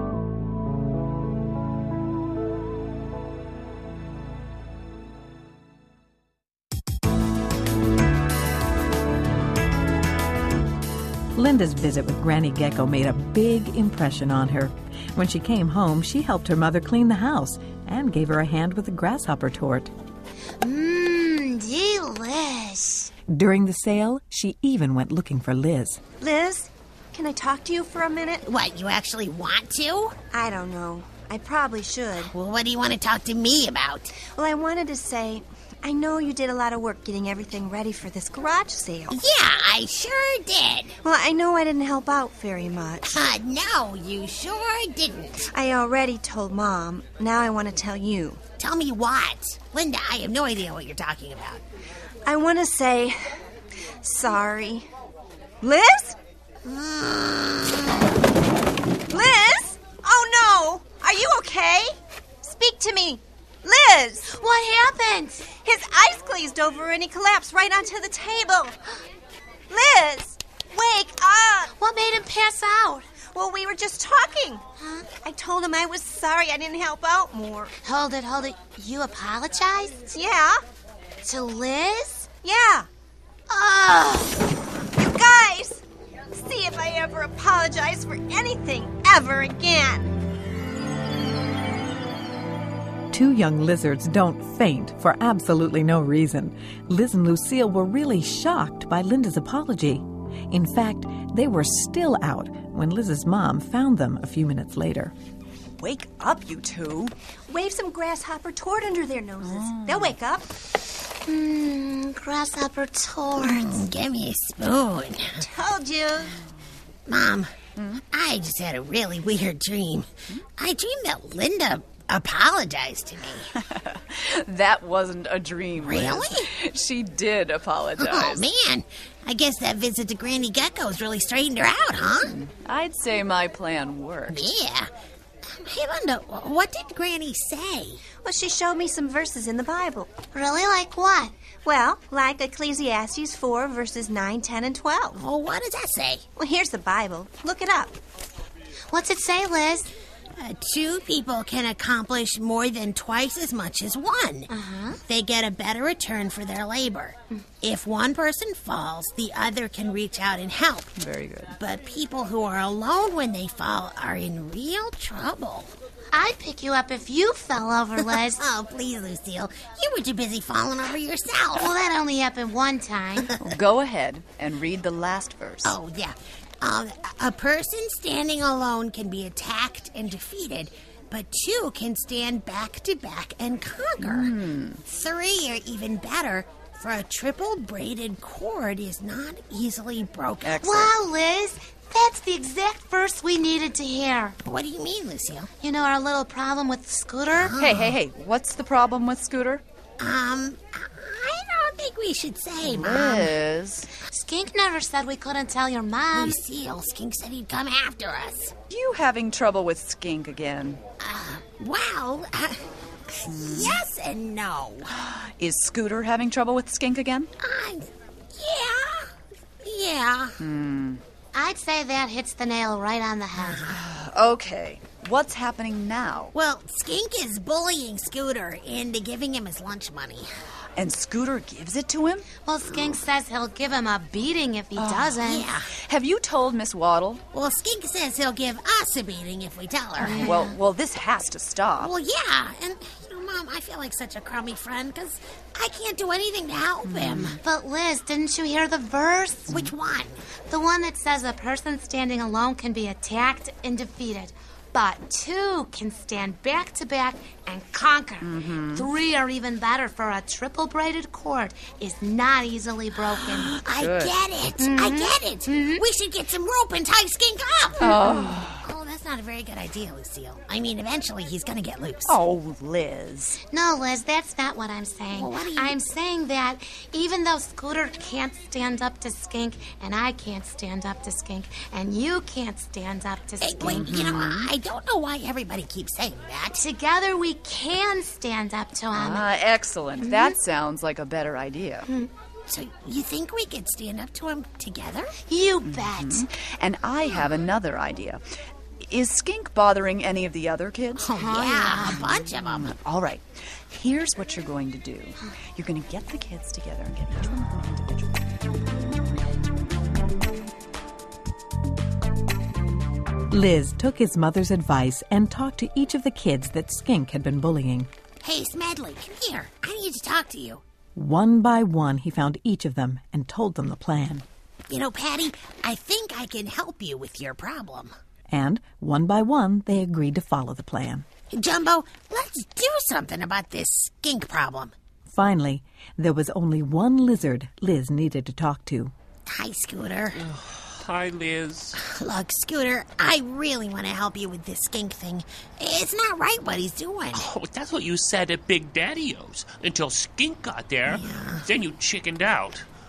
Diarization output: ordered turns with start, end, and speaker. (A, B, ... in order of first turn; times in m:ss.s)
0:11.3-0:19.9 A
0:20.6-0:23.1 B
0:23.3-0:26.0 A
0:26.2-0:28.4 C
0:28.4-0:30.2 D
0:30.3-0:32.3 C
0:32.3-0:34.1 D
0:34.2-0:39.2 C
0:39.1-0:40.9 D
0:41.0-0:43.2 C
0:43.1-0:45.5 D
0:45.5-0:48.4 C
0:48.6-0:51.6 D
0:52.2-0:53.2 C
0:54.0-0:54.9 C
0:55.6-0:56.2 C
0:56.6-0:58.0 D
0:59.1-1:04.3 C
1:04.3-1:05.5 B
1:05.6-1:08.8 C
1:09.7-1:11.7 C
1:11.8-1:13.0 B
1:13.3-1:14.6 C
1:14.8-1:15.1 B
1:15.2-1:17.7 C
1:17.8-1:20.1 B
1:20.1-1:20.6 C
1:21.2-1:22.3 B
1:22.4-1:22.9 C
1:23.5-1:24.4 B
1:25.0-1:25.8 C
1:26.3-1:30.1 C
1:33.1-1:45.1 A
1:45.8-1:47.1 E
1:47.5-1:50.5 C
1:49.4-1:50.1 E
1:51.2-1:53.8 B
1:53.4-1:55.4 D
1:55.4-1:56.4 C
1:57.1-1:57.5 D
1:57.8-1:58.0 E
1:58.1-2:03.5 D
2:03.5-2:08.4 E
2:05.8-2:06.5 D
2:08.0-2:12.3 D
2:12.2-2:14.5 E
2:14.3-2:14.9 D
2:15.4-2:18.0 D
2:18.2-2:20.1 C
2:20.3-2:21.3 B
2:21.6-2:25.2 C
2:25.1-2:26.2 D
2:26.4-2:28.0 C
2:28.9-2:29.9 B
2:30.4-2:40.9 D
2:34.5-2:35.0 B
2:41.0-2:41.6 E
2:41.6-2:45.7 D
2:46.1-2:48.4 B
2:48.0-2:51.7 D
2:51.6-2:53.3 B
2:53.4-2:55.8 E
2:55.6-3:10.9 D
3:04.0-3:04.8 E
3:10.4-3:10.9 E
3:10.6-3:14.4 B
3:14.4-3:15.5 D
3:15.6-3:17.5 B
3:17.4-3:18.0 D
3:17.6-3:19.6 E
3:20.0-3:23.3 D
3:22.6-3:23.9 E
3:24.1-3:26.4 B
3:26.1-3:28.5 D
3:28.7-3:30.8 E
3:31.0-3:34.9 D
3:33.2-3:33.8 E
3:34.9-3:37.3 E
3:37.4-3:40.4 D
3:40.4-3:41.0 E
3:41.3-3:43.7 B
3:43.4-3:43.8 D
3:43.6-3:46.3 E
3:46.3-3:50.3 D
3:50.8-3:52.2 E
3:52.4-3:55.5 B
3:54.8-3:55.2 E
3:55.2-3:55.7 D
3:55.7-3:57.2 E
3:57.3-4:00.3 D
4:00.0-4:00.6 B
4:00.0-4:01.9 E
4:01.8-4:07.4 D
4:06.8-4:07.4 E
4:07.4-4:09.6 B
4:09.5-4:10.2 D
4:10.5-4:23.5 B
4:18.2-4:18.9 E
4:23.2-4:28.0 D
4:23.8-4:24.2 E
4:24.6-4:25.8 B
4:27.8-4:28.6 E
4:27.8-4:28.4 B
4:28.6-4:32.2 D
4:32.0-4:33.4 E
4:33.5-4:44.1 B
4:35.1-4:35.8 D
4:43.4-4:46.6 D
4:43.6-4:44.5 E
4:46.5-4:49.3 B
4:48.9-4:51.9 E
4:50.0-4:50.3 B
4:52.5-4:55.2 D
4:55.3-4:56.3 B
4:55.6-4:58.2 E
4:58.8-5:01.0 E
5:01.0-5:02.7 D
5:01.1-5:02.0 B
5:01.9-5:08.1 E
5:13.3-5:17.9 A
5:18.2-5:20.6 D
5:20.9-5:24.2 A
5:24.7-5:27.9 D
5:28.3-5:31.0 A
5:31.3-5:34.7 D
5:35.1-5:38.9 A
5:39.3-5:40.2 D
5:40.2-5:41.8 F
5:41.8-5:47.2 D
5:47.1-5:52.6 F
5:50.9-5:51.5 D